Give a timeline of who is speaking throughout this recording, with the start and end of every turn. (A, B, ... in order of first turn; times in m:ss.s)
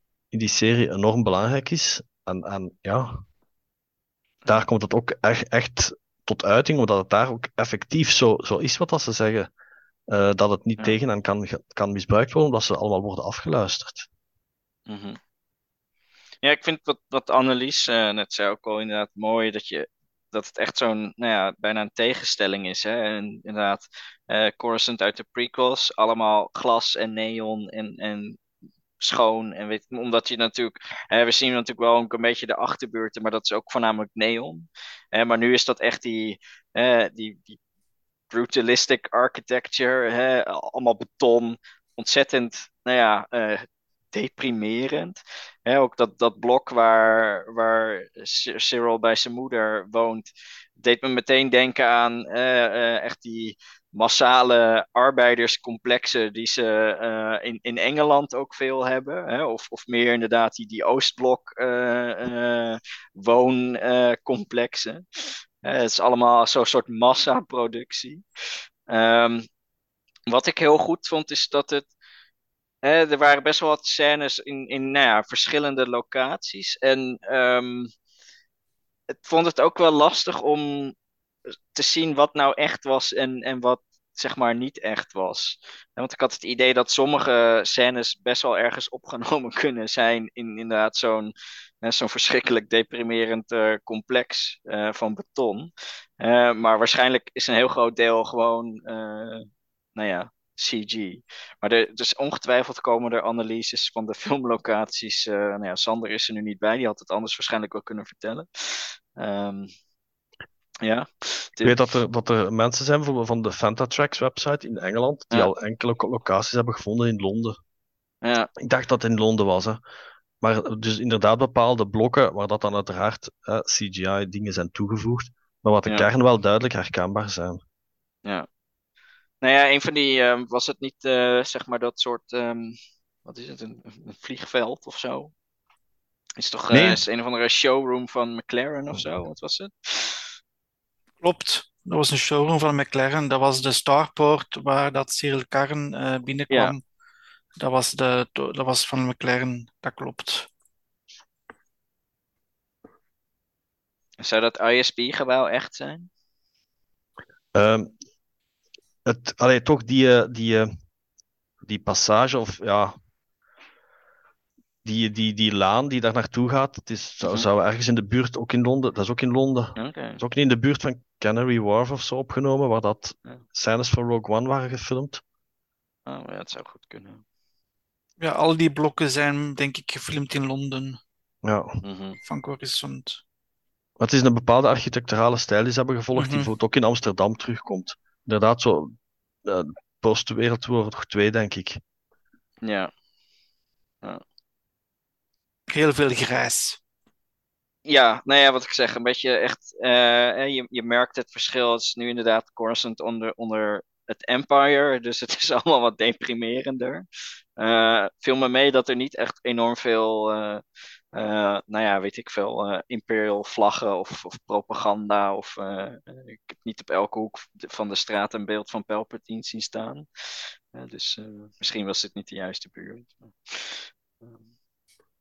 0:00.3-0:03.2 A
0:04.5-0:09.5 A
0:10.1-0:14.1 A
0:14.9-0:15.2 B
0:16.4-0:28.4 B
0:29.0-0:37.6 B
0:38.3-1:08.2 B
1:08.9-1:09.4 B
1:10.3-1:11.9 B
1:12.8-1:17.9 B
1:19.1-1:20.9 B
1:21.7-1:49.7 B
1:50.8-1:51.8 B
1:51.6-1:57.6 A
1:58.2-1:58.5 B
1:58.6-1:59.8 A
2:00.4-2:07.6 A
2:09.4-2:15.3 B
2:16.4-2:20.3 B
2:16.7-2:17.0 A
2:21.2-2:26.8 C
2:26.5-2:26.8 B
2:27.6-2:30.5 C
2:34.2-2:36.1 B
2:37.5-2:37.9 A
2:39.0-2:40.7 A
2:41.6-2:43.0 A
2:44.8-2:55.2 A
2:49.8-2:50.2 B
2:56.1-2:57.2 B
2:58.2-3:01.0 C
3:01.4-3:01.8 A
3:01.8-3:02.2 B
3:02.2-3:03.2 C
3:04.0-3:11.8 A
3:06.2-3:06.5 C
3:12.6-3:12.9 B
3:15.7-3:16.8 C
3:17.8-3:27.0 B
3:27.6-3:30.6 B
3:31.1-3:44.4 B